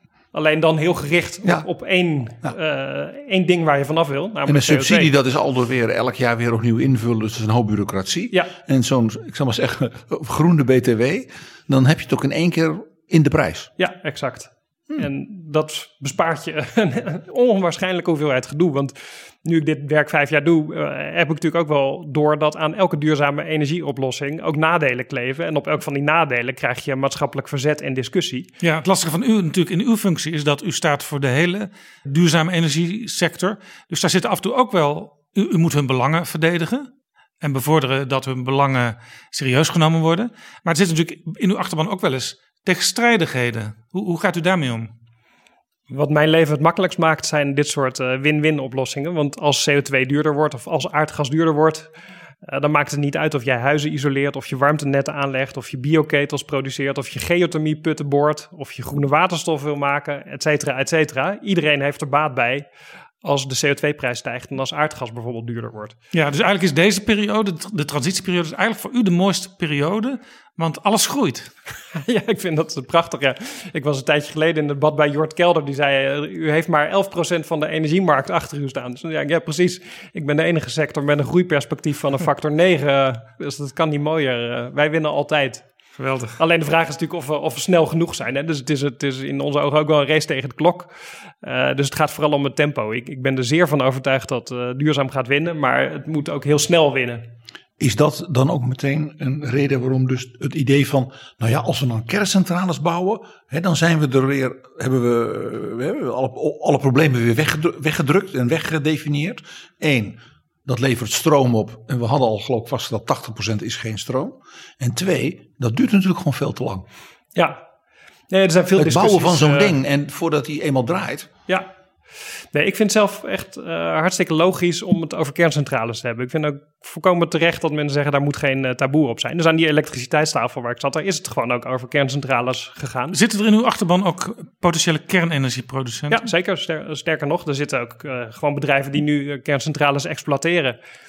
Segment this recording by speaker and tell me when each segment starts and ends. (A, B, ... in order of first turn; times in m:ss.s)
0:00.3-0:05.1 A
0:04.4-0:13.7 B
0:13.8-0:28.5 A
0:28.6-0:36.9 C
0:37.4-0:44.9 C
0:45.9-0:51.9 A
0:52.4-1:02.7 A
1:03.2-1:06.0 A
1:06.1-1:11.5 C
1:12.0-1:25.7 A
1:26.3-1:30.9 A
1:31.4-1:37.3 A
1:37.8-1:56.9 B
1:57.4-1:57.6 A
1:58.3-1:59.7 A
1:58.8-2:01.3 B
2:02.5-2:13.2 A
2:13.1-2:16.3 C
2:16.1-2:20.8 A